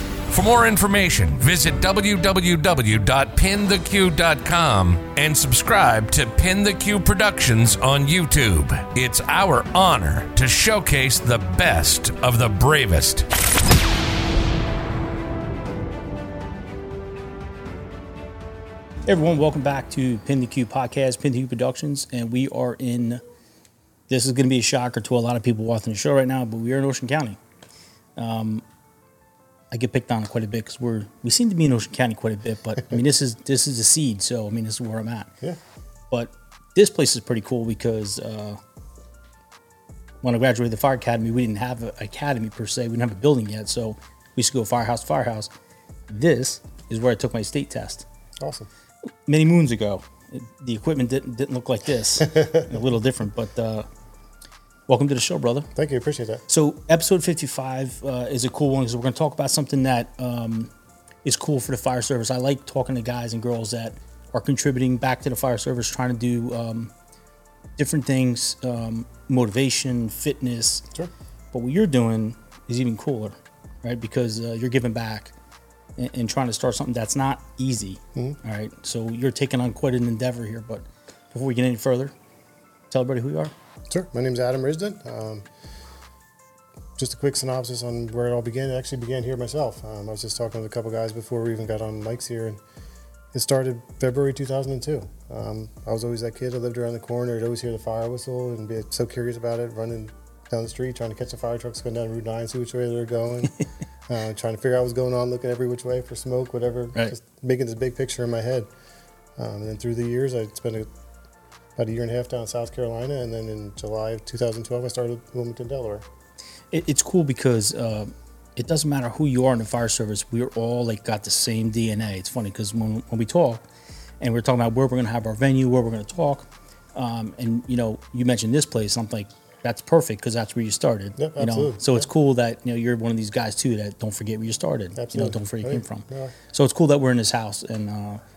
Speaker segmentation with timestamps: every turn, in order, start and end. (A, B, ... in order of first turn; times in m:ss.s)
0:00.3-0:13.3 A
0:19.1-0:23.2 B
0:24.1-0:27.4 B
0:28.2-0:28.6 B
0:29.7-0:35.3 B
0:36.1-0:38.6 B
0:40.2-0:45.5 B
0:46.1-0:48.0 B
0:48.4-0:48.7 C
0:49.3-0:53.9 B
0:52.3-0:52.6 C
0:54.9-0:55.7 B
0:55.8-0:56.4 C
0:56.5-1:00.7 B
1:01.2-1:06.9 B
1:07.8-1:10.9 B
1:11.5-1:15.3 B
1:16.0-1:22.1 B
1:22.9-1:23.5 B
1:23.9-1:25.5 C
1:27.0-1:32.6 C
1:33.3-1:48.7 C
1:49.4-1:50.9 C
1:51.8-1:56.1 C
1:56.7-2:03.6 B
2:04.2-2:18.2 B
2:11.2-2:12.1 C
2:15.0-2:16.4 C